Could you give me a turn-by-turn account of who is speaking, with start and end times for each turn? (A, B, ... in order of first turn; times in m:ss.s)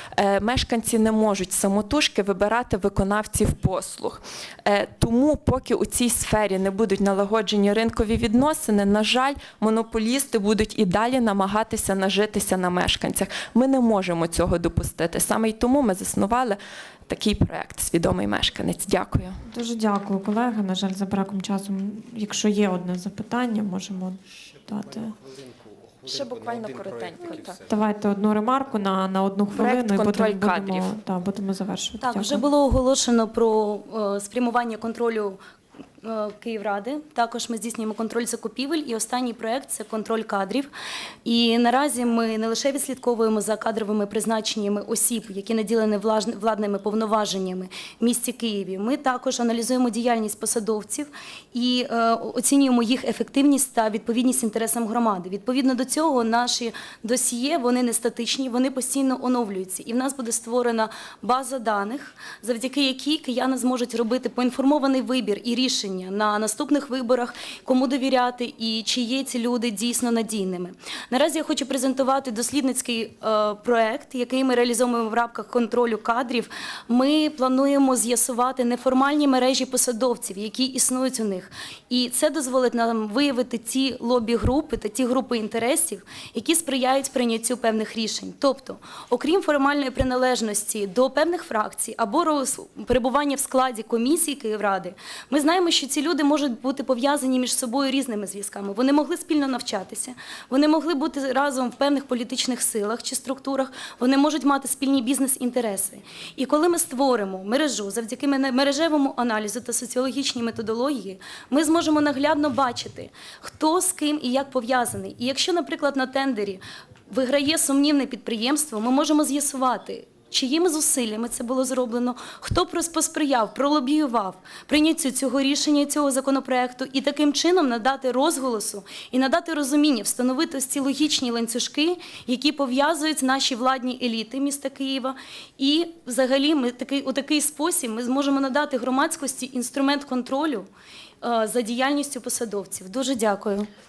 0:00.2-0:19.4 A
0:19.5-0:25.1 B
0:26.0-0:27.6 A
0:27.6-0:32.4 B
0:29.5-0:30.9 A
0:32.0-0:35.4 C
0:36.0-0:40.7 C
0:41.2-2:20.7 C
2:21.2-2:23.7 C